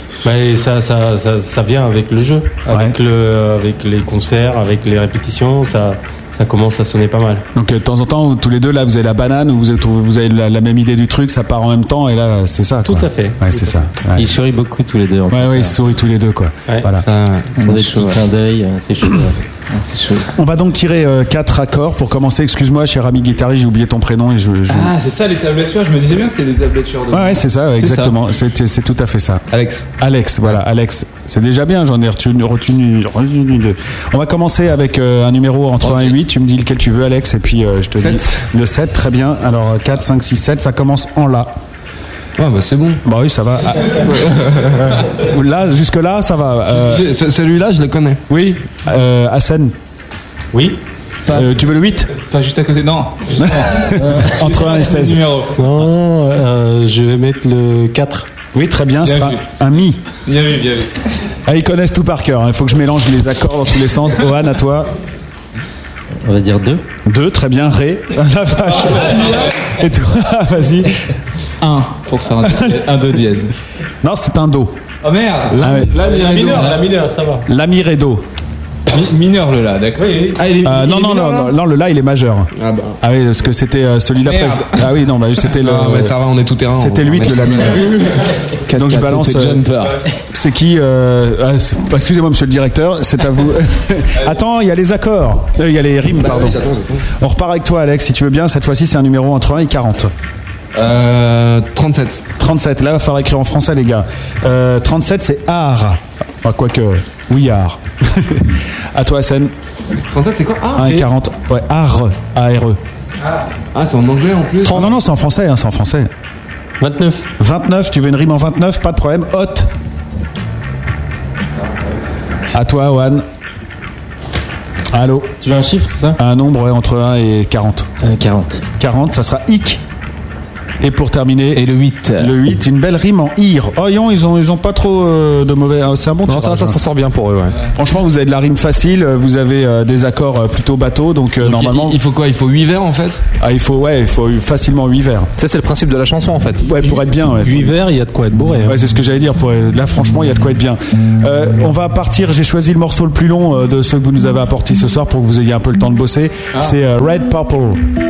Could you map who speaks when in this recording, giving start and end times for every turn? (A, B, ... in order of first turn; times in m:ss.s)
0:00.2-0:07.5 A
0:02.7-0:03.0 B
0:07.6-0:14.3 B
0:12.8-0:13.7 A
0:14.2-0:15.8 C
0:15.3-0:17.1 B
0:17.0-0:17.5 D
0:17.6-0:18.2 E
0:17.6-0:19.4 C
0:19.7-0:20.3 E
0:20.4-0:25.0 B
0:24.7-0:28.2 E
0:27.1-0:29.4 B
0:29.5-0:29.9 D
0:30.0-0:41.6 B
0:35.8-0:36.2 E
0:38.0-0:38.4 D
0:42.4-0:43.0 D
0:43.0-0:44.2 B
0:44.0-0:45.0 D
0:45.2-0:47.0 B
0:46.7-0:48.2 D
0:48.3-0:49.7 B
0:50.5-0:50.8 A
0:51.3-0:52.1 B
0:52.2-0:55.7 E
0:53.4-0:55.2 B
0:55.6-0:58.3 A
0:58.5-1:00.0 B
0:59.0-0:59.4 E
1:00.3-1:00.9 E
1:01.5-1:04.9 B
1:06.2-1:06.8 C
1:07.0-1:10.9 B
1:11.6-1:13.5 E
1:12.4-1:12.9 B
1:14.0-1:14.8 B
1:15.0-1:16.8 E
1:15.5-1:16.0 B
1:15.7-1:16.6 D
1:15.9-1:17.4 A
1:17.5-1:18.3 B
1:18.9-1:20.5 E
1:20.0-1:20.4 A
1:20.6-1:26.2 B
1:22.6-1:23.0 D
1:24.2-1:24.7 E
1:25.6-1:28.2 D
1:26.8-1:27.9 B
1:28.7-1:29.7 B
1:28.8-1:30.0 E
1:30.3-1:36.6 B
1:36.1-1:37.1 D
1:37.1-1:40.1 B
1:40.8-1:42.2 D
1:42.4-1:49.5 B
1:50.1-1:51.0 D
1:50.7-1:52.8 B
1:53.2-1:53.5 E
1:53.7-1:54.9 D
1:54.6-1:56.1 B
1:56.8-1:57.3 A
1:57.4-1:59.7 B
2:01.6-2:01.9 E
2:02.5-2:03.2 B
2:04.9-2:05.4 B
2:05.4-2:06.2 C
2:06.2-2:07.9 B
2:08.0-2:08.6 C
2:08.8-2:09.8 B
2:10.8-2:16.8 B
2:11.6-2:12.3 E
2:16.3-2:17.6 F
2:17.8-2:22.0 B
2:21.4-2:23.2 D
2:23.4-2:25.3 B
2:25.4-2:27.0 F
2:26.6-2:27.8 B
2:27.4-2:28.8 A
2:28.6-2:37.8 B